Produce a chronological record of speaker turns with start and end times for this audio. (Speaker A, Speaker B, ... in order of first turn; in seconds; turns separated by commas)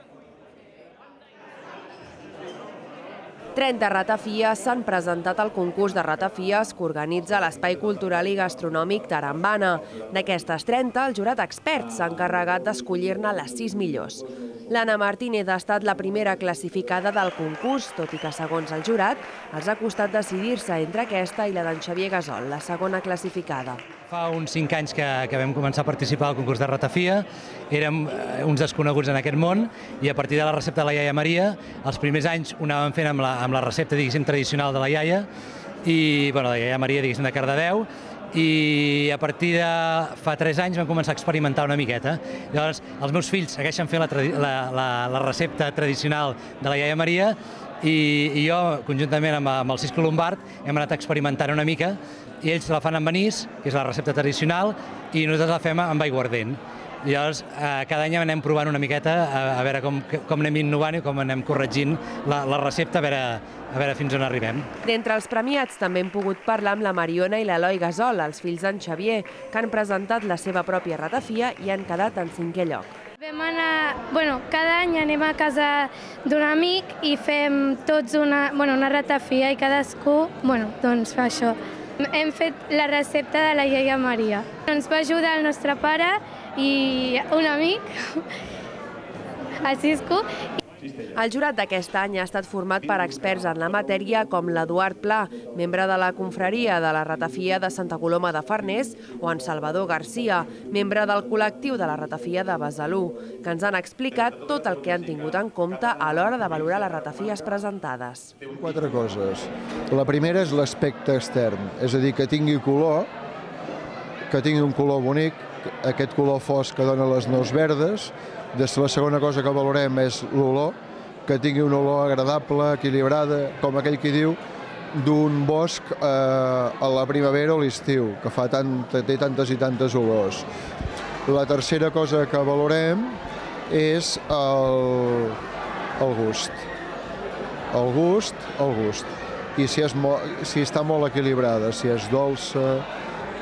Speaker A: 3.6-23.8, Speaker B: 24.1-35.3, Speaker B: 35.8-64.7, Speaker A: 64.8-72.9, Speaker C: 73.2-81.6, Speaker C: 82.1-87.8, Speaker C: 89.6-90.2, Speaker A: 91.2-108.3, Speaker D: 108.5-113.1, Speaker D: 114.3-124.4, Speaker D: 124.9-130.5, Speaker D: 131.3-135.4, Speaker D: 136.0-136.7, Speaker D: 137.7-142.9